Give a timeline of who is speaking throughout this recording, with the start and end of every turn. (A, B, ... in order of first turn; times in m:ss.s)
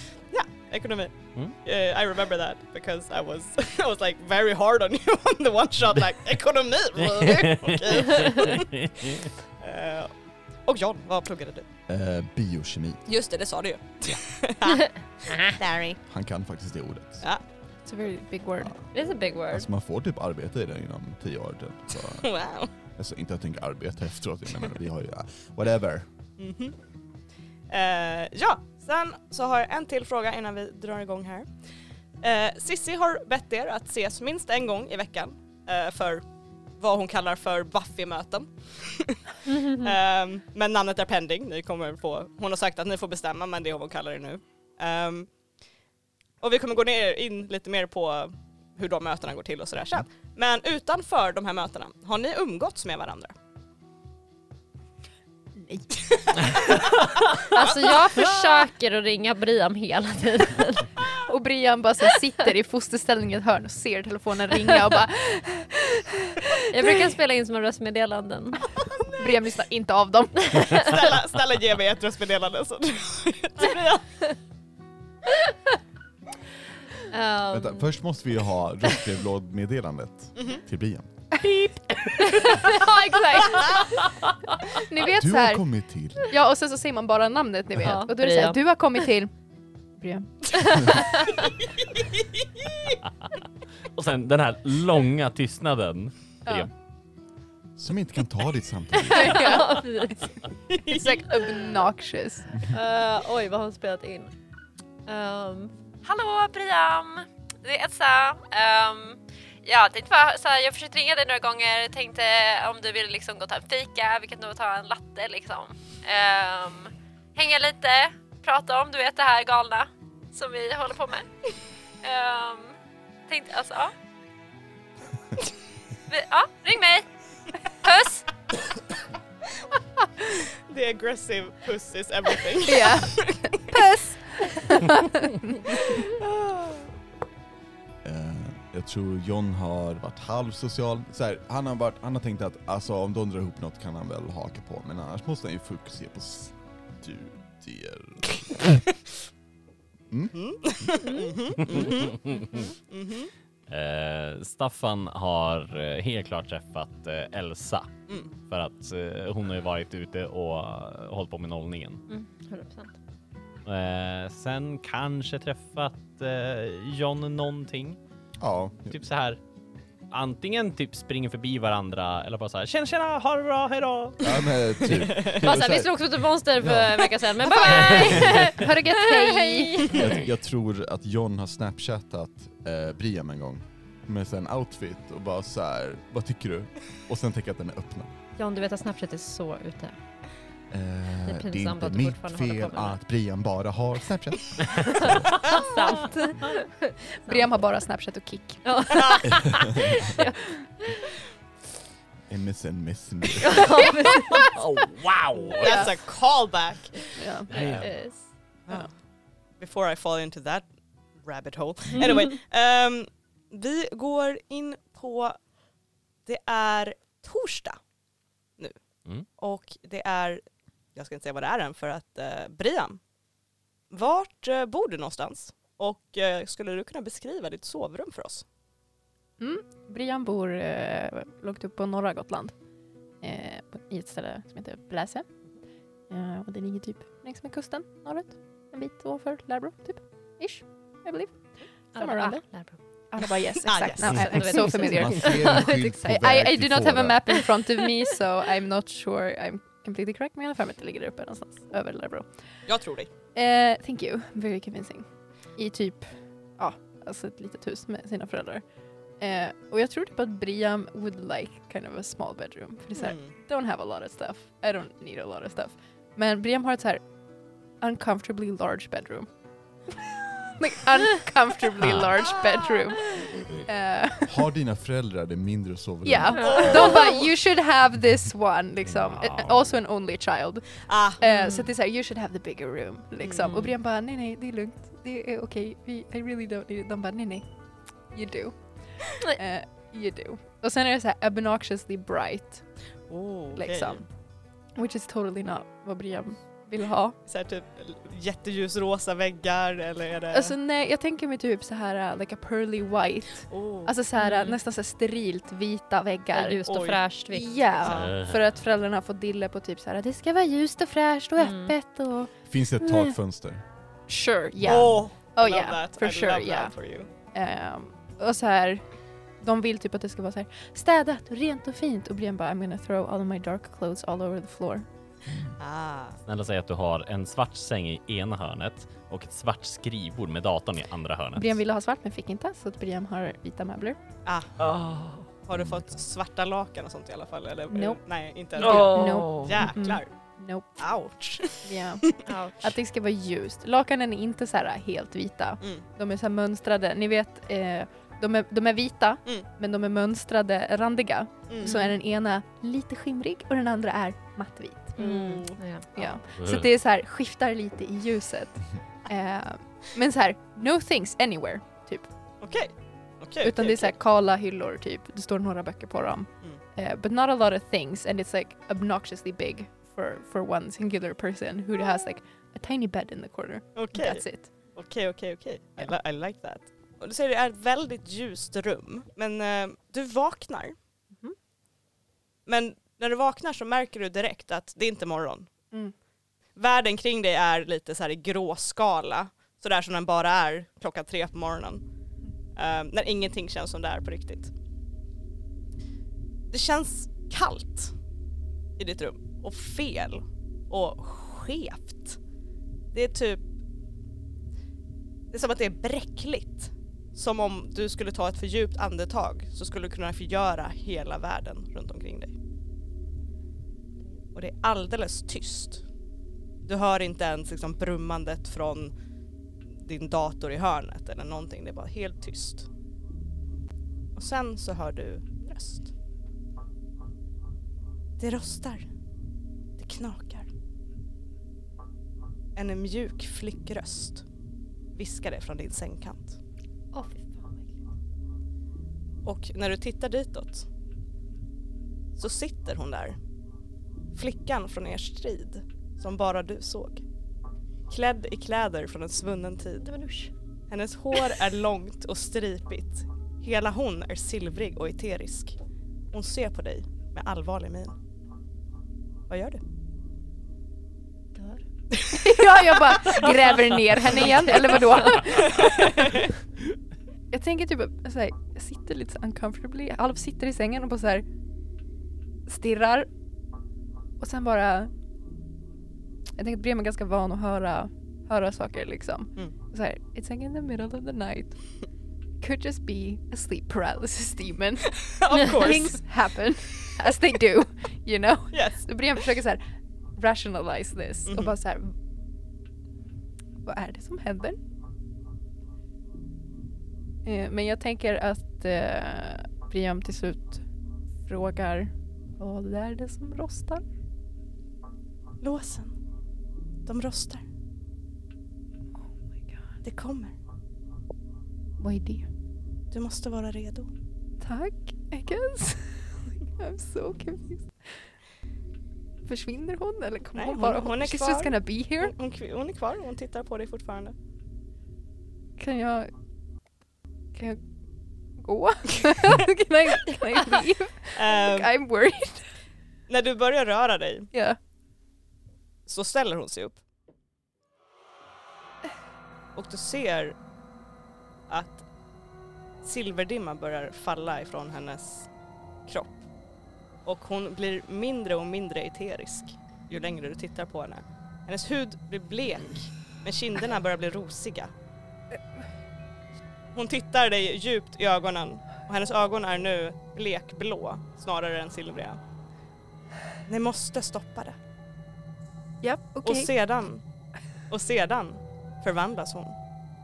0:00.3-0:10.1 A
0:07.0-0:09.3 B
0:10.6-0:11.7 A
0:11.9-0:13.0 C
0:13.1-0:16.0 A
0:16.1-0:17.2 C
0:17.8-0:18.7 D
0:18.6-0:18.9 C
0:18.9-0:19.7 E
0:19.5-0:22.3 C
0:22.2-0:22.7 A
0:22.9-0:26.1 C
0:26.4-0:26.8 A
0:27.7-0:31.5 A
0:32.2-0:36.3 A
0:36.8-0:45.3 A
0:39.5-0:39.9 E
0:46.4-0:53.3 A
0:55.6-0:55.9 D
0:56.1-0:56.9 A
0:57.4-1:01.1 E
1:01.2-1:07.1 D
1:06.7-1:08.7 E
1:09.2-1:10.8 D
1:10.4-1:10.9 E
1:10.8-1:14.2 A
1:17.0-1:18.0 E
1:17.5-1:21.1 C
1:20.4-1:20.6 A
1:21.3-1:23.8 D
1:22.2-1:24.0 E
1:24.7-1:25.6 D
1:25.0-1:26.3 C
1:26.2-1:29.3 D
1:27.8-1:28.8 E
1:30.0-1:31.0 D
1:30.6-1:31.4 E
1:32.0-1:33.0 A
1:33.9-1:36.7 B
1:37.8-1:39.6 C
1:39.1-1:40.1 D
1:39.1-1:40.3 E
1:40.7-1:41.3 A
1:40.9-1:42.5 D
1:42.7-1:44.3 E
1:45.1-2:01.3 E
2:02.0-2:02.8 E
2:03.3-2:03.9 E
2:06.1-2:07.1 E
2:07.7-2:08.3 E
2:10.3-2:13.8 A
2:12.6-2:15.8 D
2:15.7-2:16.9 A
2:18.0-2:28.7 C
2:30.1-2:30.9 C
2:30.3-2:33.3 A
2:31.7-2:32.7 B
2:33.7-2:42.0 B
2:42.1-2:43.0 E
2:43.6-2:48.0 B
2:48.4-2:49.0 C
2:48.9-2:49.4 B
2:50.1-2:54.4 B
2:54.2-2:55.9 C
2:55.1-2:55.6 A
2:55.2-3:00.2 E
2:56.6-2:57.0 C
2:57.4-2:58.3 A
2:58.0-3:00.0 D
2:59.9-3:08.1 C
3:08.4-3:10.0 E
3:10.7-3:15.2 C
3:11.3-3:13.0 E
3:15.0-3:17.5 E
3:15.8-3:16.6 D
3:17.2-3:19.1 D
3:18.6-3:21.2 E
3:18.9-3:19.2 A
3:19.4-3:20.0 C
3:22.3-3:23.7 C
3:23.4-3:24.5 E
3:24.0-3:24.4 D
3:24.4-3:25.8 B
3:25.6-3:25.9 D
3:25.6-3:27.0 A
3:27.2-3:27.8 D
3:27.5-3:27.9 B
3:27.6-3:28.2 E
3:29.6-3:30.7 A
3:31.2-3:35.4 A
3:32.0-3:32.3 E
3:36.3-3:37.8 A
3:39.4-3:40.4 A
3:41.0-3:43.0 A
3:43.9-3:48.4 A
3:49.4-3:52.5 D
3:53.2-3:55.3 D
3:56.1-4:01.4 D
4:01.9-4:02.4 D
4:01.9-4:02.8 E
4:03.1-4:12.3 D
4:03.6-4:04.2 A
4:04.0-4:06.1 E
4:04.1-4:07.4 C
4:12.7-4:13.1 A
4:13.3-4:18.6 D
4:19.2-4:27.0 D
4:23.0-4:23.3 A
4:27.8-4:29.3 D
4:29.9-4:34.5 D
4:31.9-4:32.1 B
4:34.3-4:36.5 C
4:36.0-4:47.5 D
4:36.4-4:37.2 E
4:36.4-4:37.3 A
4:38.9-4:39.5 B
4:40.9-4:41.2 A
4:41.2-4:41.6 E
4:43.2-4:43.6 A
4:48.1-4:52.6 D
4:53.1-4:54.0 A
4:53.5-4:54.0 D
4:54.8-4:57.2 D
4:57.3-5:00.6 A
5:00.3-5:06.7 D
5:03.5-5:03.9 A
5:04.2-5:04.6 E
5:06.3-5:07.6 E
5:06.7-5:07.0 A
5:07.3-5:13.2 D
5:07.8-5:08.2 A
5:07.9-5:08.4 B
5:11.4-5:11.7 E
5:12.5-5:13.6 C
5:14.1-5:16.7 D
5:14.6-5:17.1 A
5:17.3-5:18.8 D
5:19.4-5:24.8 D
5:25.6-5:26.2 A
5:26.3-5:31.5 B
5:31.4-5:34.0 D
5:34.3-5:34.6 A
5:34.6-5:35.2 B
5:35.4-5:40.1 A
5:37.7-5:38.0 D
5:38.6-5:40.8 D
5:38.7-5:39.4 B
5:40.8-5:42.2 A
5:41.6-5:55.0 D
5:42.3-5:42.8 E
5:51.5-5:51.8 A
5:51.6-5:51.9 E
5:55.0-5:55.9 E
5:55.0-5:56.2 A
5:56.0-6:02.1 D
5:56.4-5:56.7 B
6:02.4-6:03.9 A
6:03.4-6:14.5 D
6:13.8-6:20.8 A
6:22.5-6:25.5 A
6:26.6-6:31.8 A
6:32.5-6:34.5 A
6:36.5-6:37.9 A
6:38.8-6:42.2 A
6:42.9-6:43.4 A
6:45.3-6:52.4 A
6:54.3-6:55.8 A
6:56.6-6:58.9 A
6:59.8-7:02.7 A
7:04.2-7:05.9 A
7:08.2-7:08.9 A
7:09.8-7:10.5 A
7:12.6-7:14.2 A
7:14.9-7:16.4 A
7:16.9-7:17.8 E
7:19.2-7:20.7 A
7:22.2-7:23.2 A
7:24.1-7:27.0 A
7:27.9-7:29.9 A
7:29.8-7:30.3 E
7:30.7-7:35.6 A
7:36.1-7:38.0 A
7:39.3-7:39.6 A
7:41.4-7:41.6 E
7:41.9-7:42.3 A
7:42.1-7:46.3 D
7:45.4-7:46.3 A
7:47.3-7:51.2 D
7:52.5-7:53.1 D
7:54.2-7:54.9 D
7:56.4-8:01.6 D
8:02.4-8:09.6 D
8:05.0-8:06.0 A
8:08.5-8:08.8 A
8:10.2-8:12.0 D
8:11.3-8:11.5 A
8:13.6-8:14.6 D
8:17.2-8:20.6 D
8:21.2-8:23.8 D
8:25.4-8:26.0 A
8:26.9-8:27.4 A
8:29.8-8:30.4 A
8:31.8-8:32.3 D
8:32.9-8:33.9 A
8:34.4-8:38.0 D
8:39.2-8:42.1 D
8:40.4-8:44.2 A
8:45.6-8:46.1 D
8:47.3-8:47.6 D
8:48.4-8:52.5 D
8:51.2-8:51.7 A
8:53.1-8:54.3 A
8:54.3-8:54.6 D
8:55.9-8:56.8 A
8:59.6-9:00.4 A
9:01.5-9:01.8 A
9:02.8-9:05.3 A
9:05.9-9:06.2 A
9:07.0-9:14.7 A
9:16.7-9:22.2 A
9:23.5-9:24.6 A
9:25.8-9:26.5 D
9:26.2-9:27.0 A
9:27.7-9:29.6 A